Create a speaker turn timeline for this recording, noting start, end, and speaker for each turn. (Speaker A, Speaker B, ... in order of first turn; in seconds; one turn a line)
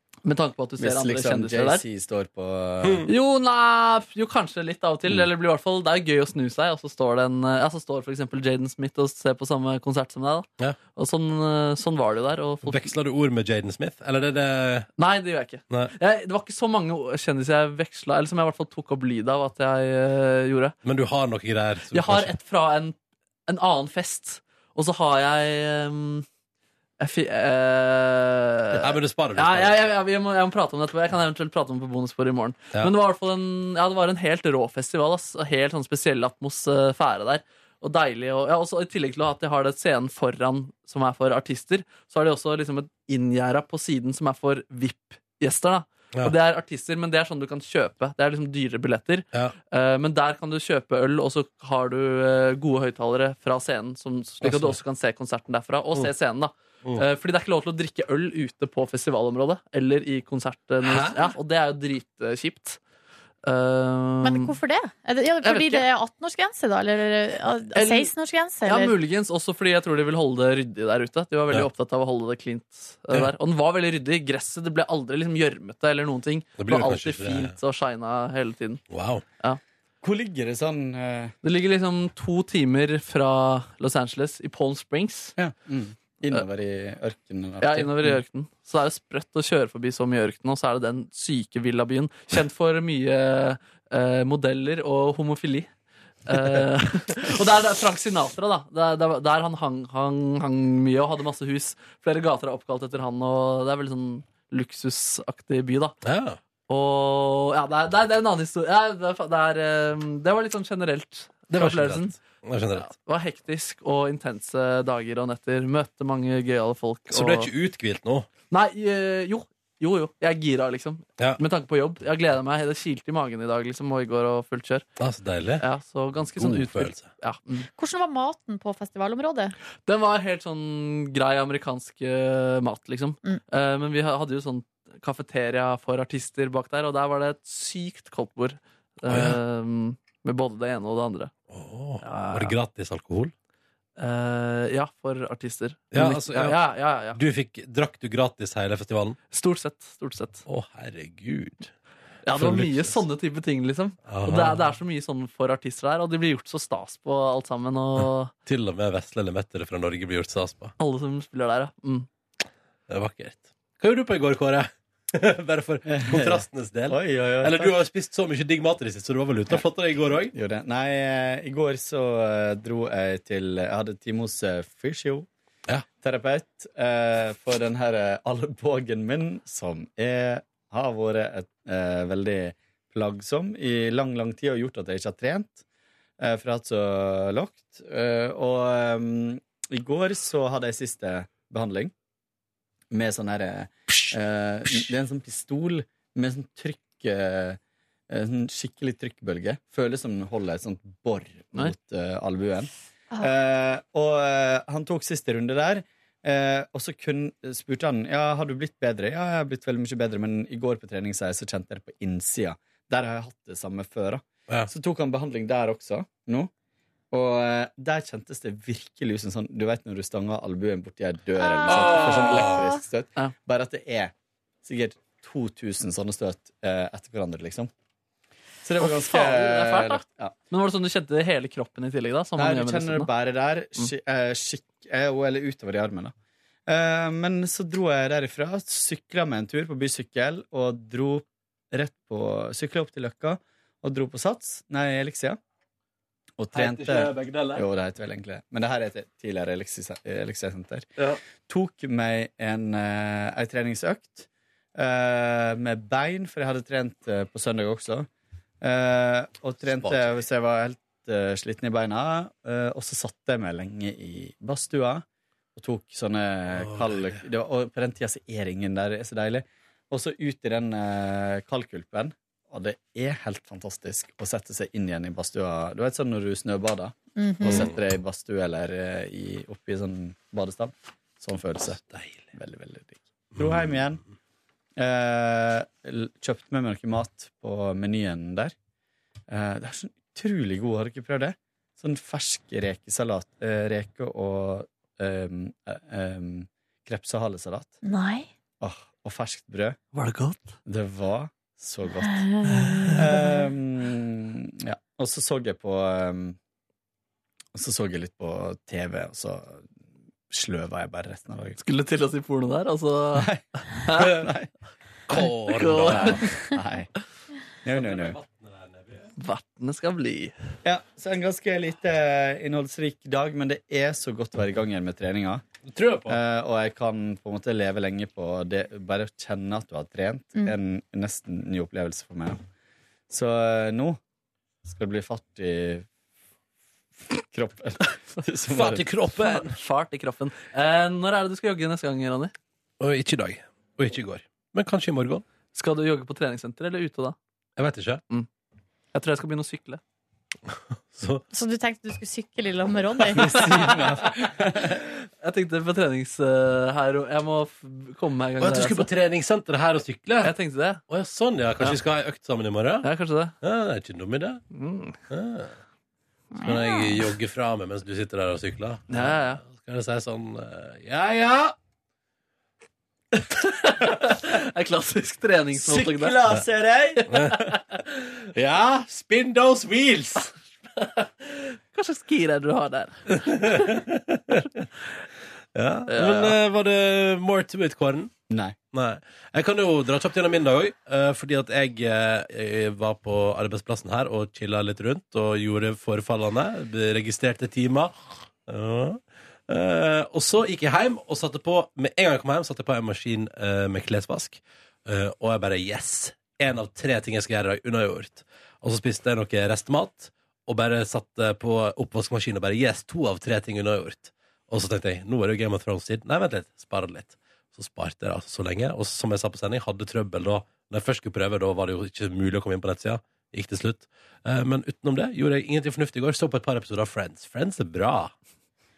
Speaker A: 0.2-1.8
Speaker B: 0.8-3.0
Speaker C: 2.8-3.1
Speaker A: 3.1-12.9
Speaker C: 12.6-14.9
Speaker A: 15.0-20.7
Speaker C: 20.8-22.3
Speaker A: 21.9-22.9
Speaker A: 23.5-26.3
Speaker A: 27.0-62.8
Speaker C: 28.7-29.8
Speaker C: 54.4-54.8
Speaker C: 60.8-61.3
Speaker A: 63.4-64.5
Speaker D: 64.2-69.0
Speaker A: 65.4-65.9
Speaker A: 67.7-68.1
Speaker A: 68.6-78.8
Speaker C: 76.6-77.5
Speaker C: 78.9-79.2
Speaker B: 80.0-81.3
Speaker A: 81.4-85.3
Speaker B: 85.4-88.2
Speaker A: 87.6-95.7
Speaker A: 96.3-106.0
Speaker C: 106.0-106.4
Speaker A: 106.7-112.2
Speaker C: 111.5-112.9
Speaker A: 112.7-117.5
Speaker C: 117.1-118.3
Speaker A: 118.5-124.8
Speaker C: 125.0-125.6
Speaker A: 125.6-127.7
Speaker C: 126.4-127.1
Speaker D: 127.8-129.5
Speaker A: 129.9-141.3
Speaker C: 139.1-139.4
Speaker C: 141.5-143.3
Speaker A: 142.0-142.6
Speaker A: 144.0-147.2
Speaker C: 145.9-146.6
Speaker C: 147.1-149.2
Speaker A: 149.3-150.4
Speaker C: 150.5-151.7
Speaker A: 152.2-158.3
Speaker C: 152.3-153.0
Speaker C: 154.1-154.7
Speaker C: 158.0-160.7
Speaker A: 160.8-162.1
Speaker C: 162.9-170.3
Speaker B: 165.9-167.7
Speaker B: 170.3-175.3
Speaker B: 176.0-185.6
Speaker B: 186.2-191.9
Speaker B: 192.9-197.6
Speaker B: 198.1-216.5
Speaker B: 217.1-224.1
Speaker D: 221.4-222.8
Speaker C: 221.7-222.6
Speaker B: 224.6-227.7
Speaker B: 228.6-230.3
Speaker A: 228.8-233.1
Speaker B: 232.4-236.1
Speaker B: 236.7-245.4
Speaker B: 246.4-250.9
Speaker C: 246.5-247.6
Speaker B: 251.4-258.1
Speaker B: 258.6-265.1
Speaker C: 259.6-260.2
Speaker B: 265.6-281.8
Speaker C: 266.5-267.2
Speaker D: 277.1-277.7
Speaker C: 277.4-277.8
Speaker C: 281.8-282.2
Speaker B: 282.3-284.0
Speaker C: 283.4-283.8
Speaker B: 284.8-288.5
Speaker B: 289.3-297.7
Speaker D: 297.8-298.3
Speaker B: 298.6-299.8
Speaker A: 299.9-300.5
Speaker B: 300.6-302.3
Speaker D: 302.0-303.4
Speaker A: 302.5-303.0
Speaker B: 302.9-306.4
Speaker B: 307.5-309.6
Speaker B: 310.3-311.6
Speaker A: 311.6-314.2
Speaker B: 313.1-313.4
Speaker B: 313.9-314.5
Speaker C: 315.1-316.3
Speaker A: 315.1-316.4
Speaker B: 315.9-316.9
Speaker B: 317.6-318.2
Speaker C: 317.6-319.1
Speaker A: 319.2-320.3
Speaker B: 320.6-325.4
Speaker C: 325.7-326.2
Speaker B: 326.1-332.4
Speaker B: 333.1-334.0
Speaker B: 334.6-335.9
Speaker B: 337.1-338.9
Speaker C: 338.5-339.6
Speaker A: 339.2-342.3
Speaker C: 342.8-345.2
Speaker A: 345.5-347.1
Speaker C: 347.6-348.0
Speaker A: 348.9-349.8
Speaker C: 350.5-351.2
Speaker D: 351.3-353.3
Speaker B: 353.2-354.8
Speaker C: 353.2-353.9
Speaker A: 353.4-353.9
Speaker A: 355.2-358.9
Speaker C: 358.4-360.3
Speaker A: 360.2-360.8
Speaker C: 360.9-362.9
Speaker A: 362.8-363.3
Speaker C: 363.4-364.4
Speaker A: 364.5-365.0
Speaker C: 365.1-365.6
Speaker D: 366.4-366.9
Speaker C: 366.4-371.6
Speaker A: 368.9-369.4
Speaker A: 373.2-376.2
Speaker B: 375.6-377.0
Speaker A: 376.9-377.6
Speaker C: 377.1-380.3
Speaker A: 380.8-383.8
Speaker C: 383.1-384.7
Speaker C: 385.5-388.1
Speaker A: 385.9-386.4
Speaker B: 388.3-388.6
Speaker C: 388.7-397.9
Speaker C: 398.4-428.1